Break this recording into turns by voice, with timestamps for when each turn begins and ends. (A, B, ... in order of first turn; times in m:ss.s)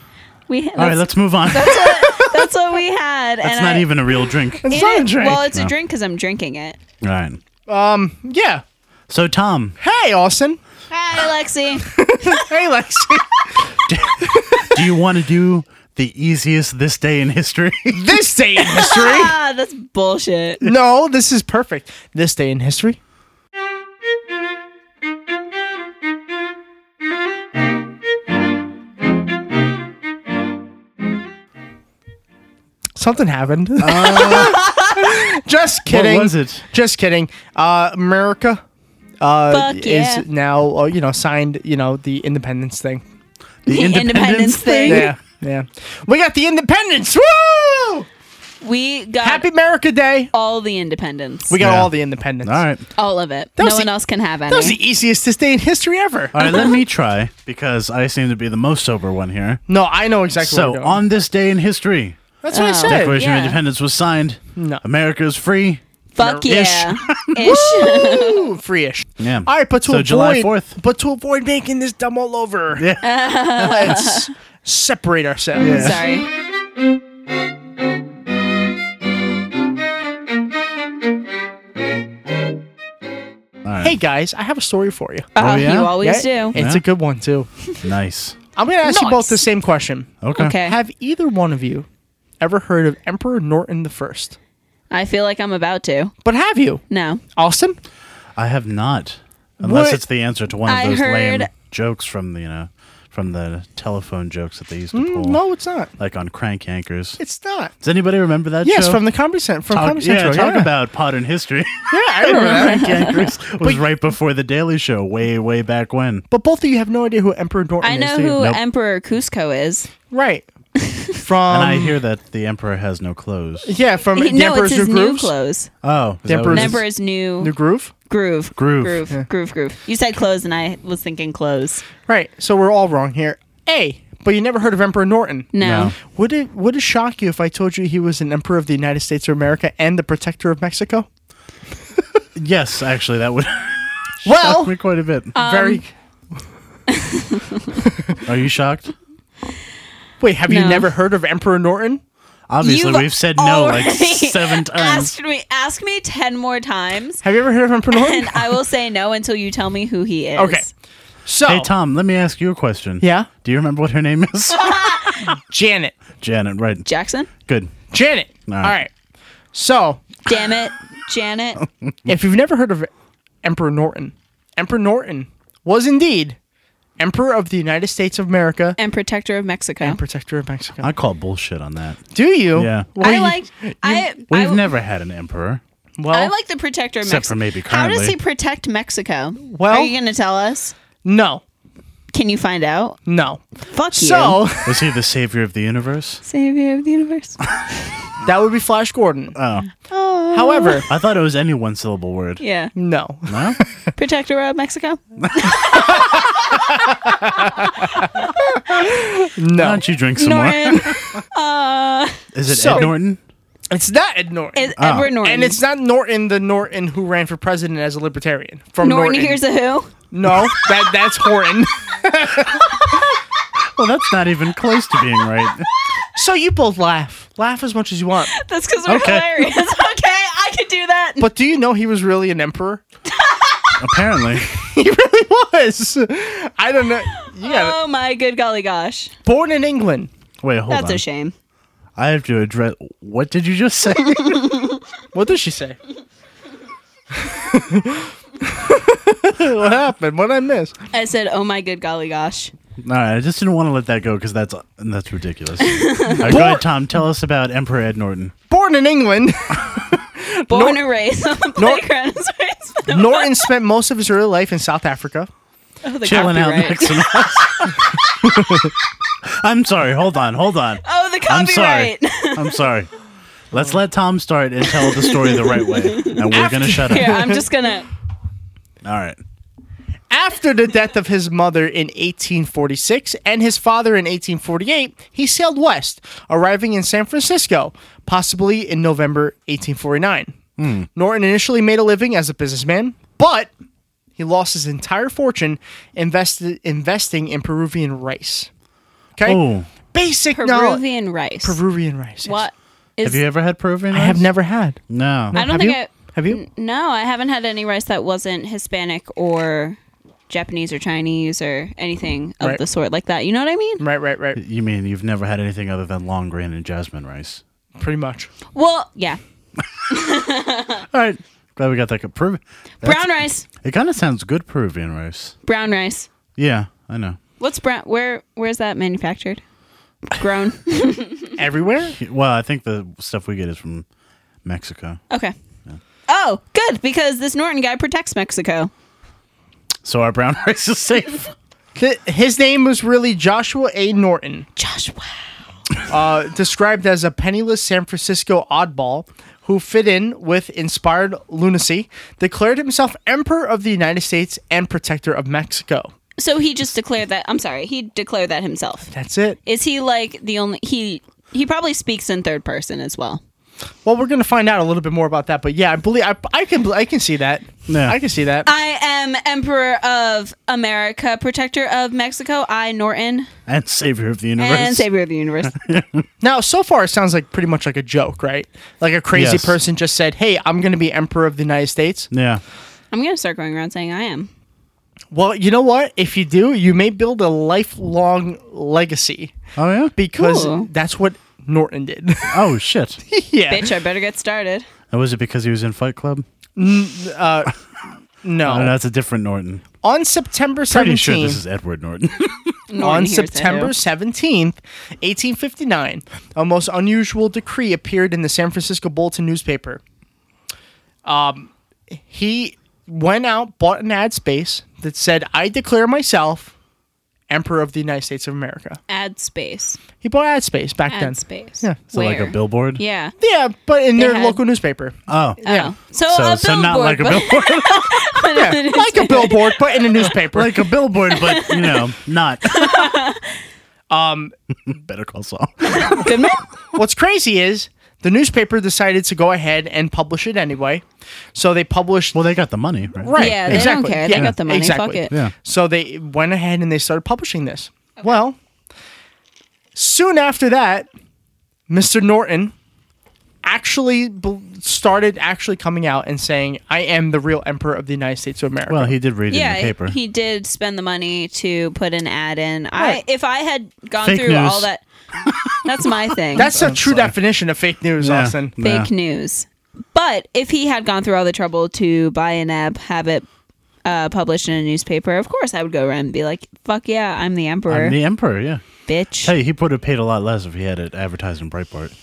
0:00.5-0:04.0 A
0:00.8-0:02.4 B
0:03.4-0:04.7 B
0:04.6-0:05.4 C
0:04.7-0:06.8 A
0:07.0-0:07.4 B
0:07.7-0:08.6 C
0:09.1-0:09.8 B
0:09.8-0:10.6 C
0:10.9-0:12.4 A
0:11.8-0:13.6 C
0:13.9-0:18.2 B
0:14.2-0:14.9 C
0:17.9-0:19.3 C
0:18.6-0:20.6 A
0:20.6-0:23.0 C
0:33.0-0:38.6 C
0:33.8-0:34.7 B
0:35.9-0:36.6 B
0:39.2-0:43.0 C
0:39.5-0:40.2 A
0:43.6-0:45.1 B
0:43.7-0:45.1 A
0:44.9-0:48.1 C
0:48.6-0:49.5 A
0:49.2-0:50.3 C
0:50.3-0:51.5 A
0:51.5-0:52.6 C
0:51.5-0:51.9 B
0:52.4-0:52.8 B
0:53.0-0:54.8 A
0:53.6-0:53.9 C
0:54.5-0:56.4 C
0:56.3-0:59.6 B
0:56.4-0:56.8 A
0:59.7-1:01.0 C
1:00.4-1:05.8 B
1:02.4-1:03.2 C
1:02.5-1:03.6 A
1:04.6-1:04.8 C
1:06.2-1:08.5 A
1:06.2-1:06.8 C
1:06.5-1:07.5 B
1:07.4-1:12.9 C
1:09.2-1:10.8 B
1:12.8-1:13.9 B
1:13.0-1:14.3 A
1:13.7-1:16.0 C
1:15.6-1:16.0 B
1:15.6-1:16.3 A
1:23.6-1:24.0 B
1:23.8-1:25.3 C
1:25.4-1:26.6 A
1:25.4-1:26.0 B
1:26.0-1:27.5 C
1:26.6-1:26.8 B
1:27.8-1:28.4 B
1:28.6-1:31.9 C
1:28.8-1:29.4 A
1:30.2-1:30.6 B
1:30.4-1:30.8 A
1:32.4-1:34.4 C
1:34.9-1:36.1 A
1:36.2-1:36.8 C
1:36.9-1:37.2 A
1:37.4-1:37.8 C
1:38.4-1:45.4 B
1:39.6-1:40.0 C
1:40.7-1:41.5 A
1:44.9-1:45.9 C
1:46.0-1:47.2 B
1:47.2-1:47.7 C
1:47.8-1:49.0 B
1:48.6-1:50.7 C
1:49.7-1:56.2 B
1:51.9-1:53.8 C
1:52.3-1:53.2 A
1:56.3-1:58.4 C
1:57.8-1:59.9 A
1:58.3-1:58.6 B
2:00.1-2:00.5 C
2:01.1-2:02.0 C
2:01.5-2:03.7 B
2:03.6-2:05.3 C
2:04.2-2:05.7 A
2:05.8-2:06.8 B
2:06.3-2:06.8 C
2:06.5-2:07.5 A
2:07.4-2:07.9 C
2:08.1-2:11.8 A
2:08.6-2:09.0 B
2:12.1-2:21.1 C
2:15.5-2:15.9 A
2:15.6-2:16.0 B
2:22.4-2:25.3 B
2:24.2-2:24.8 C
2:25.4-2:25.8 A
2:25.4-2:25.9 C
2:26.9-2:27.8 A
2:28.2-2:28.9 B
2:30.2-2:32.0 C
2:30.5-2:30.9 A
2:32.5-2:35.1 B
2:32.6-2:37.2 A
2:37.2-2:38.6 C
2:37.9-2:40.7 A
2:40.4-2:40.7 C
2:41.3-2:41.7 C
2:41.5-2:44.8 B
2:43.0-2:43.3 C
2:44.5-2:45.4 A
2:45.5-2:46.0 C
2:46.2-2:46.9 B
2:46.8-2:47.3 A
2:47.5-2:47.8 B
2:47.9-2:48.9 C
2:48.5-2:48.8 B
2:49.5-2:50.2 C
2:50.3-2:51.6 A
2:51.6-2:52.1 B
2:52.1-2:52.9 C
2:53.4-2:56.4 C
2:57.0-2:58.8 C
2:58.8-3:00.0 A
2:59.8-3:00.9 C
3:00.8-3:02.0 B
3:02.1-3:04.0 C
3:02.6-3:02.9 B
3:03.0-3:04.7 A
3:04.3-3:05.6 B
3:06.0-3:06.3 C
3:06.1-3:10.7 A
3:07.0-3:08.2 B
3:09.5-3:09.9 C
3:11.0-3:11.4 C
3:12.1-3:13.0 A
3:13.1-3:14.8 C
3:13.7-3:14.4 A
3:14.6-3:16.2 B
3:16.2-3:17.4 A
3:18.2-3:19.4 C
3:19.4-3:19.7 B
3:19.8-3:20.8 A
3:20.3-3:20.9 C
3:20.9-3:22.4 B
3:22.4-3:22.7 A
3:22.8-3:23.6 C
3:23.3-3:23.6 B
3:24.0-3:26.5 A
3:25.2-3:25.5 B
3:25.8-3:26.2 C
3:27.0-3:28.1 C
3:28.2-3:28.8 A
3:28.7-3:29.8 C
3:29.5-3:31.2 B
3:30.2-3:32.9 A
3:32.3-3:33.2 B
3:32.5-3:32.9 C
3:33.7-3:39.4 C
3:34.6-3:35.6 A
3:34.8-3:35.1 B
3:38.8-3:39.9 A
3:40.1-3:43.0 C
3:42.6-3:43.0 A
3:43.8-3:45.7 B
3:46.2-3:48.3 C
3:48.3-3:51.3 A
3:48.9-3:49.5 B
3:51.2-3:52.8 C
3:53.2-3:53.7 A
3:53.8-3:54.5 B
3:54.4-3:57.8 C
3:57.4-3:59.1 A
3:59.3-4:00.1 C
4:00.4-4:01.0 B
4:00.7-4:01.3 A
4:02.0-4:04.4 B
4:04.1-4:04.8 A
4:05.1-4:05.8 C
4:07.2-4:10.7 C
4:10.9-4:12.5 A
4:12.8-4:18.3 B
4:15.6-4:16.2 A
4:16.2-4:16.6 C
4:18.5-4:20.8 C
4:20.5-4:23.3 A
4:21.6-4:21.9 C
4:22.9-4:25.3 C
4:25.8-4:27.8 A
4:26.0-4:28.7 B
4:29.2-4:32.9 B
4:30.8-4:32.6 A
4:33.5-4:37.4 B
4:34.7-4:37.9 A
4:36.3-4:37.4 C
4:38.8-4:39.2 B
4:40.1-4:50.4 C
4:50.6-4:50.9 B
4:51.0-4:53.5 C
4:54.2-4:58.5 C
4:59.2-5:00.8 C
4:59.2-4:59.7 B
5:00.3-5:01.6 A
5:01.4-5:02.4 C
5:02.2-5:03.2 A
5:03.0-5:04.3 B
5:03.9-5:04.8 C
5:04.9-5:05.4 B
5:05.3-5:06.4 C
5:05.3-5:09.8 A
5:10.3-5:13.8 A
5:13.8-5:14.4 C
5:14.4-5:17.4 B
5:17.8-5:18.3 C
5:18.5-5:19.2 A
5:19.9-5:20.8 A
5:20.9-5:25.3 B
5:22.8-5:23.4 A
5:25.4-5:26.1 A
5:26.4-5:27.2 B
5:27.4-5:29.4 A
5:30.1-5:31.3 A
5:31.4-5:32.0 C
5:32.0-5:33.9 B
5:34.4-5:35.0 B
5:36.1-5:38.7 A
5:39.8-5:41.3 B
5:41.8-5:44.5 C
5:44.6-5:45.1 A
5:45.9-5:55.9 C
5:56.2-5:58.9 A
5:58.9-5:59.4 C
5:59.5-6:03.2 A
6:03.8-6:08.5 C
6:07.7-6:08.0 B
6:08.5-6:13.3 A
6:13.5-6:14.9 B
6:14.4-6:15.6 A
6:15.4-6:16.1 B
6:16.2-6:22.1 C
6:19.1-6:19.6 B
6:22.1-6:22.4 B
6:22.9-6:24.3 A
6:25.1-6:29.4 C
6:29.6-6:30.0 B
6:30.0-6:32.4 C
6:30.2-6:30.7 A
6:32.3-6:33.0 B
6:33.1-6:33.8 C
6:33.5-6:34.6 A
6:34.9-6:36.3 B
6:36.6-6:37.5 C
6:38.2-6:38.7 C
6:38.4-6:39.6 B
6:39.8-6:41.4 C
6:40.7-6:42.6 B
6:42.7-6:43.7 A
6:42.8-6:49.8 C
6:51.0-6:51.5 C
6:52.1-6:56.5 C
6:57.3-6:58.8 C
6:58.9-6:59.8 A
7:00.0-7:01.8 C
7:00.9-7:03.2 A
7:01.9-7:02.8 B
7:03.2-7:05.7 C
7:04.0-7:04.4 A
7:05.1-7:05.4 B
7:05.4-7:09.6 A
7:06.1-7:08.0 B
7:08.3-7:10.6 C
7:10.1-7:12.9 B
7:11.1-7:11.8 A
7:12.5-7:13.4 A
7:13.9-7:14.3 C
7:14.7-7:16.1 B
7:15.6-7:16.4 A
7:16.8-7:22.2 C
7:22.1-7:24.4 B
7:23.0-7:28.4 C
7:23.2-7:25.1 A
7:29.8-7:30.9 C
7:31.7-7:32.5 C
7:33.4-7:39.0 C
7:38.7-7:40.0 B
7:39.3-7:44.8 A
7:42.8-7:43.0 C
7:44.0-7:44.7 B
7:45.2-7:47.2 B
7:45.6-7:46.5 A
7:46.4-7:48.5 C
7:48.0-7:48.9 B
7:48.6-7:53.3 A
7:53.8-7:58.0 A
7:57.7-7:58.6 B
7:58.9-7:59.3 A
7:59.2-8:01.9 B